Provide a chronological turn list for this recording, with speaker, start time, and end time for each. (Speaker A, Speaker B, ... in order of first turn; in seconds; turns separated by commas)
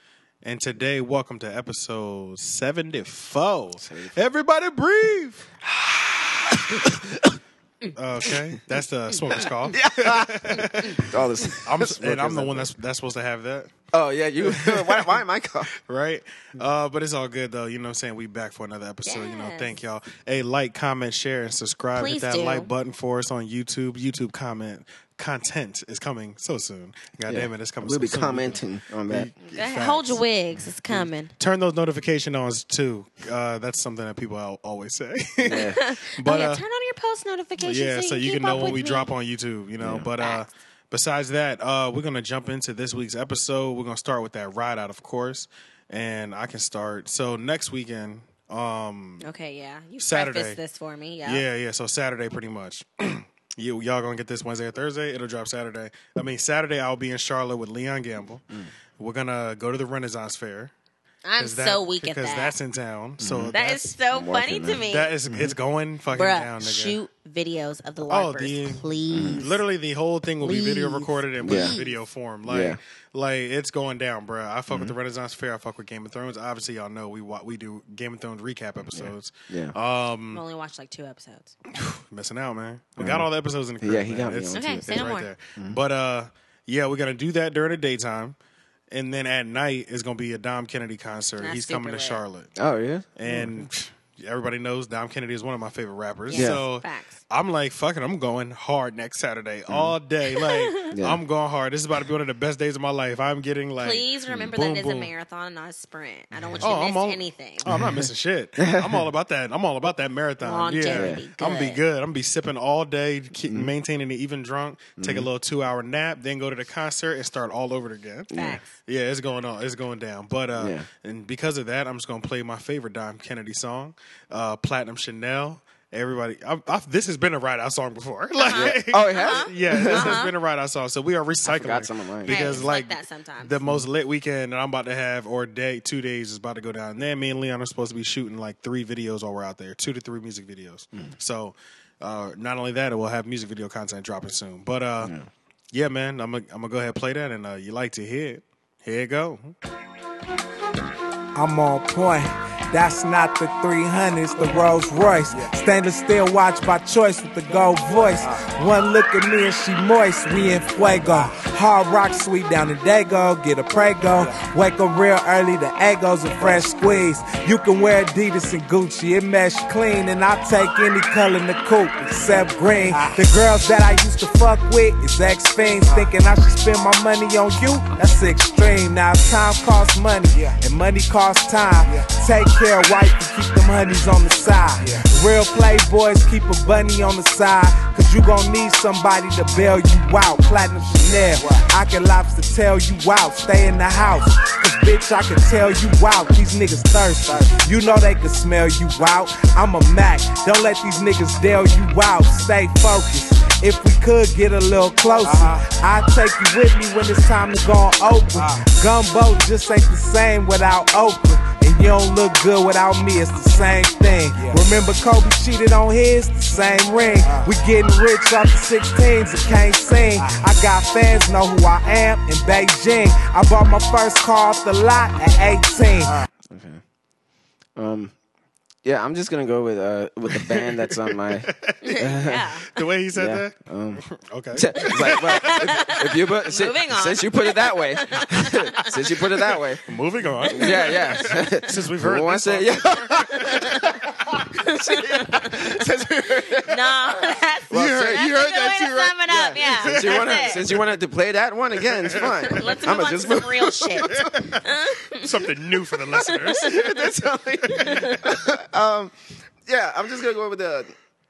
Speaker A: 0.4-5.5, Speaker B: 3.8-4.2, Speaker B: 5.8-7.3, Speaker A: 8.0-13.7, Speaker C: 9.1-9.5, Speaker B: 9.4-12.7, Speaker B: 13.9-15.7, Speaker A: 14.4-15.2, Speaker A: 15.9-30.2, Speaker C: 19.0-19.8, Speaker C: 21.9-22.7, Speaker B: 27.3-29.3, Speaker C: 29.5-31.3, Speaker A: 30.9-36.6, Speaker B: 35.4-35.8, Speaker C: 35.5-39.1, Speaker A: 37.6-49.3, Speaker B: 38.5-38.8, Speaker B: 39.8-40.1, Speaker C: 40.2-40.5, Speaker C: 49.2-51.4, Speaker A: 50.0-50.6, Speaker A: 51.2-58.5, Speaker A: 59.0-60.7, Speaker C: 61.2-62.6, Speaker A: 61.4-63.9, Speaker B: 63.2-65.5, Speaker C: 63.5-65.1, Speaker A: 64.8-67.0, Speaker C: 66.1-69.6, Speaker A: 68.1-80.4, Speaker B: 69.1-69.4, Speaker C: 70.4-72.0, Speaker B: 71.4-71.8, Speaker B: 72.5-72.8, Speaker B: 74.7-75.0, Speaker B: 78.9-79.8, Speaker C: 80.3-81.5, Speaker A: 81.8-88.4, Speaker B: 83.0-83.3, Speaker B: 83.8-84.9, Speaker C: 84.5-85.3, Speaker A: 88.9-92.5, Speaker C: 91.4-92.2, Speaker B: 92.6-93.6, Speaker A: 93.2-105.1, Speaker C: 96.3-97.2, Speaker B: 96.3-96.6, Speaker B: 99.7-100.0, Speaker C: 100.3-100.7, Speaker B: 100.9-101.2, Speaker C: 103.8-107.7, Speaker B: 106.3-106.7, Speaker A: 106.6-145.1, Speaker B: 107.7-109.1, Speaker C: 110.4-111.8, Speaker B: 110.9-111.2, Speaker B: 115.0-115.3, Speaker B: 118.3-118.6, Speaker C: 118.3-118.7, Speaker B: 120.6-120.9, Speaker C: 128.3-130.3, Speaker B: 128.5-130.2, Speaker B: 131.4-132.7, Speaker C: 132.3-133.6, Speaker B: 145.0-145.3, Speaker A: 145.7-149.6, Speaker D: 151.3-226.2, Speaker B: 226.5-226.8, Speaker B: 227.8-228.1, Speaker B: 228.8-232.5, Speaker A: 230.3-235.9, Speaker C: 231.8-232.8, Speaker B: 233.1-234.0, Speaker B: 234.5-239.8, Speaker C: 234.8-238.9, Speaker A: 239.9-244.5, Speaker C: 240.4-241.3, Speaker B: 240.5-246.9, Speaker C: 244.7-245.7, Speaker C: 246.5-250.7, Speaker B: 247.7-248.3, Speaker A: 247.7-251.0, Speaker B: 249.8-254.3, Speaker A: 251.8-252.9, Speaker C: 252.4-255.3, Speaker A: 254.1-257.1, Speaker C: 256.1-257.0, Speaker B: 256.3-259.1, Speaker A: 257.6-258.5, Speaker C: 257.8-258.2, Speaker B: 259.7-260.9